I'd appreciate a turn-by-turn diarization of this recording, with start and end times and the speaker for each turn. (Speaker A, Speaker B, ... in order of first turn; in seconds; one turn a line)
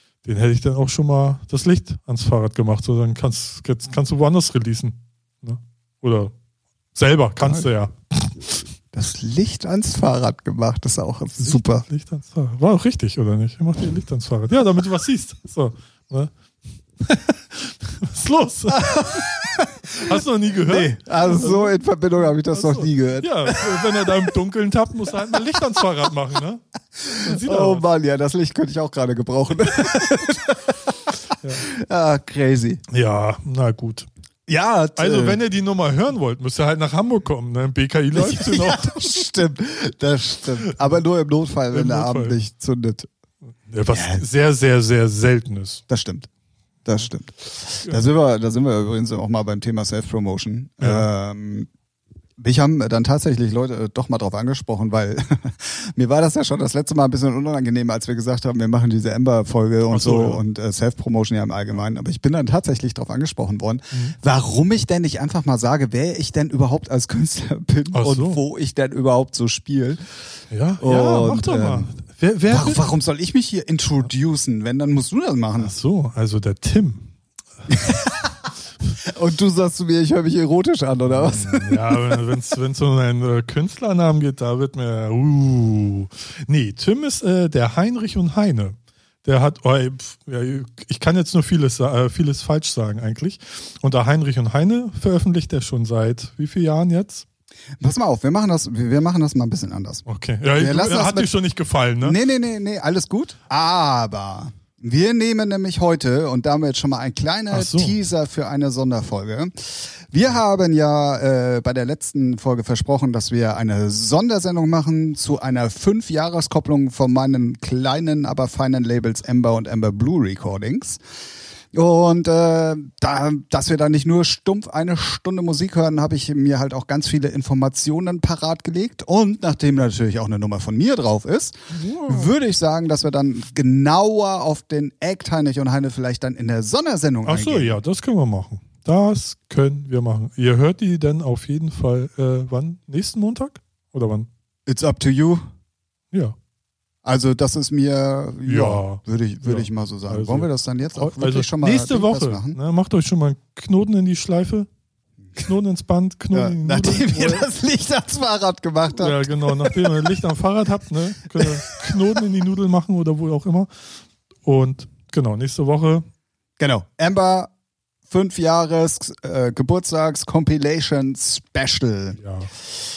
Speaker A: 0.2-6.3
Speaker A: 6.9-8.6
Speaker B: 7.4-7.7
Speaker B: 8.9-11.8
Speaker A: 11.4-16.3
Speaker A: 17.0-19.4
Speaker B: 18.7-24.2
Speaker A: 19.9-27.8
Speaker B: 27.0-32.8
Speaker A: 32.9-34.1
Speaker B: 34.5-35.4
Speaker A: 35.0-39.2
Speaker B: 38.1-43.1
Speaker A: 41.7-42.4
Speaker A: 43.7-45.8
Speaker B: 43.9-44.2
Speaker B: 45.9-46.3
Speaker B: 46.9-51.7
Speaker A: 47.8-48.0
Speaker A: 50.8-51.1
Speaker B: 52.4-70.0
Speaker A: 59.9-60.4
Speaker A: 63.9-64.2
Speaker A: 67.9-68.4
Speaker A: 70.5-72.8
Speaker B: 70.8-71.9
Speaker B: 72.5-75.7
Speaker A: 75.6-77.1
Speaker B: 77.7-78.3
Speaker B: 79.0-82.2
Speaker A: 81.1-97.2
Speaker B: 97.8-100.0
Speaker A: 100.0-102.2
Speaker B: 100.5-101.3
Speaker B: 102.0-121.0
Speaker A: 107.5-108.0
Speaker B: 121.7-137.8
Speaker A: 131.7-132.3
Speaker A: 137.2-144.3
Speaker B: 144.7-145.4
Speaker B: 147.0-152.6
Speaker A: 148.4-154.7
Speaker A: 155.4-157.5
Speaker B: 156.3-160.2
Speaker A: 158.9-163.7
Speaker B: 161.3-162.2
Speaker A: 164.4-166.1
Speaker B: 166.6-167.5
Speaker B: 168.1-172.2
Speaker A: 172.2-172.5